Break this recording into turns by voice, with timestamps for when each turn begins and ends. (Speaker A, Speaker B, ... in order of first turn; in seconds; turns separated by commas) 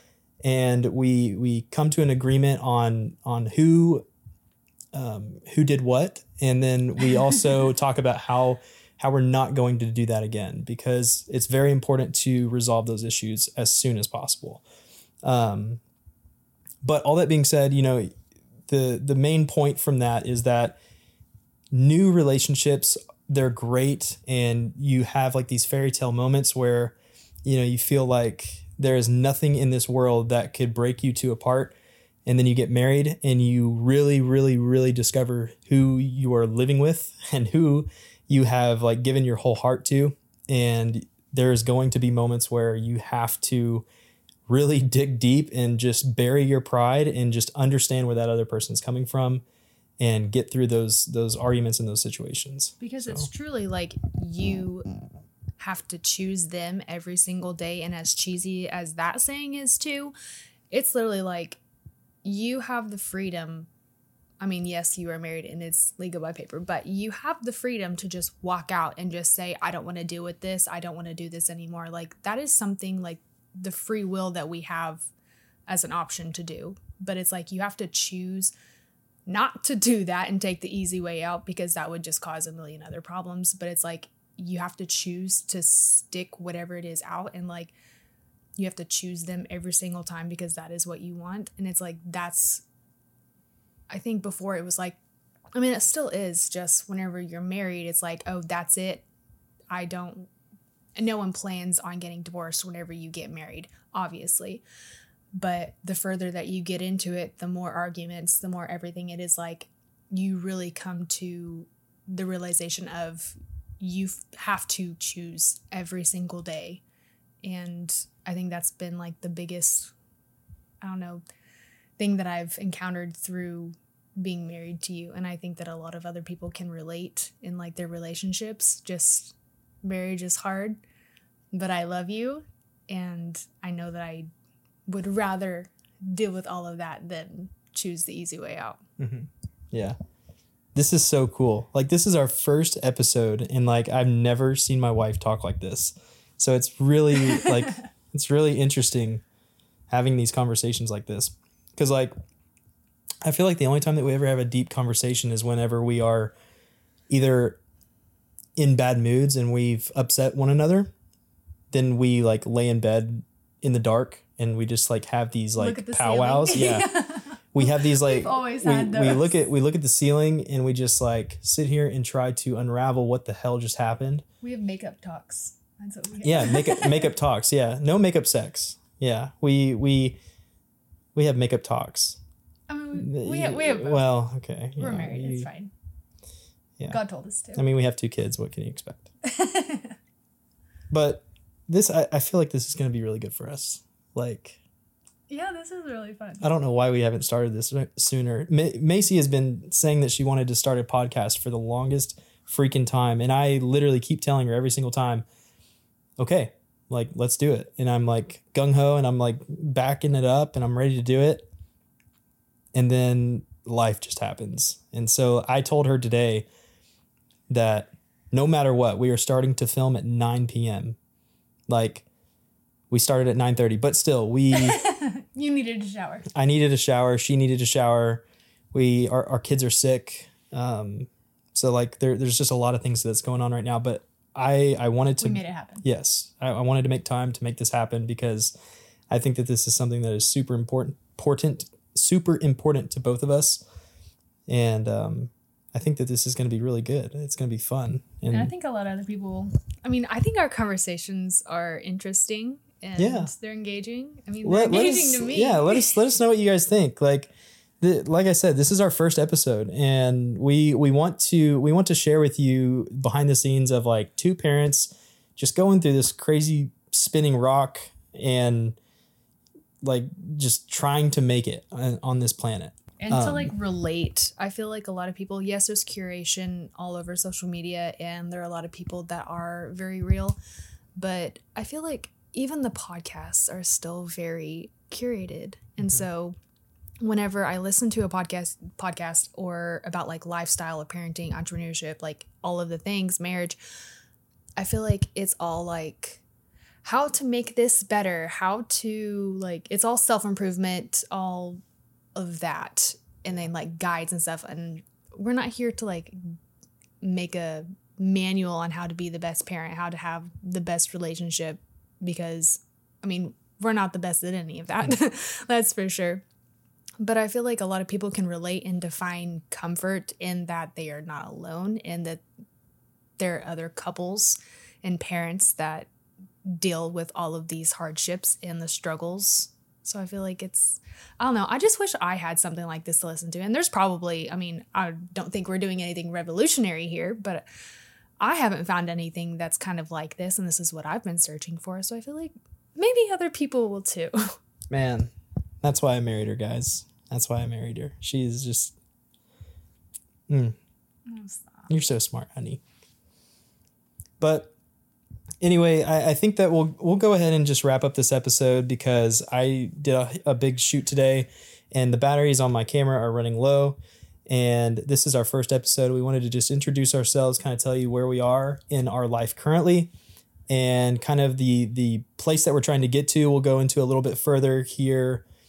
Speaker A: 0.4-4.1, Speaker A: 4.9-14.6, Speaker A: 15.2-15.8, Speaker A: 16.8-18.1, Speaker A: 18.7-20.8, Speaker A: 21.7-43.9, Speaker A: 44.5-49.4, Speaker A: 50.0-53.3, Speaker B: 52.8-54.9, Speaker B: 55.6-60.1, Speaker B: 60.7-61.6, Speaker B: 62.2-63.7, Speaker B: 64.4-75.1, Speaker B: 75.7-78.5, Speaker B: 79.3-87.7, Speaker B: 88.6-92.6, Speaker B: 93.9-95.0, Speaker B: 95.5-99.0, Speaker B: 99.7-100.3, Speaker B: 101.0-104.6, Speaker B: 105.4-116.8, Speaker B: 117.4-119.9, Speaker B: 120.8-121.2, Speaker B: 122.0-130.8, Speaker B: 131.5-134.3, Speaker B: 134.9-138.8, Speaker A: 139.0-140.0, Speaker A: 140.8-149.2, Speaker B: 147.3-147.7, Speaker A: 149.9-152.1, Speaker A: 153.2-156.3, Speaker A: 157.1-157.6, Speaker A: 158.6-160.9, Speaker A: 161.7-166.9, Speaker B: 165.6-169.4, Speaker A: 167.5-174.2, Speaker B: 174.4-177.1, Speaker A: 176.2-180.2, Speaker A: 181.2-182.2, Speaker B: 182.7-184.2, Speaker A: 183.0-185.5, Speaker B: 184.8-185.7, Speaker B: 186.9-187.6, Speaker A: 187.6-189.1, Speaker B: 189.2-190.0, Speaker A: 190.9-194.6, Speaker B: 195.3-196.5, Speaker A: 196.4-205.3, Speaker A: 206.2-211.5, Speaker A: 212.7-216.5, Speaker A: 217.5-221.0, Speaker A: 221.7-222.1, Speaker A: 222.9-224.8, Speaker B: 224.5-226.3, Speaker A: 226.3-238.5, Speaker B: 235.2-235.8, Speaker A: 239.1-243.6, Speaker A: 244.5-248.5, Speaker B: 248.3-256.0, Speaker A: 253.0-253.3, Speaker A: 254.4-268.8, Speaker A: 269.8-273.5, Speaker B: 273.0-280.4, Speaker B: 281.0-286.4, Speaker B: 287.0-293.6, Speaker B: 294.6-296.2, Speaker B: 296.8-301.6, Speaker B: 302.1-306.2, Speaker B: 307.0-316.2, Speaker B: 317.0-322.2, Speaker B: 323.2-325.9, Speaker B: 326.5-337.5, Speaker B: 338.2-344.2, Speaker A: 344.7-345.1, Speaker A: 345.6-348.8, Speaker A: 350.3-350.6, Speaker B: 351.1-351.7, Speaker A: 351.7-352.6, Speaker A: 354.2-354.5, Speaker A: 355.4-369.9, Speaker A: 370.5-375.2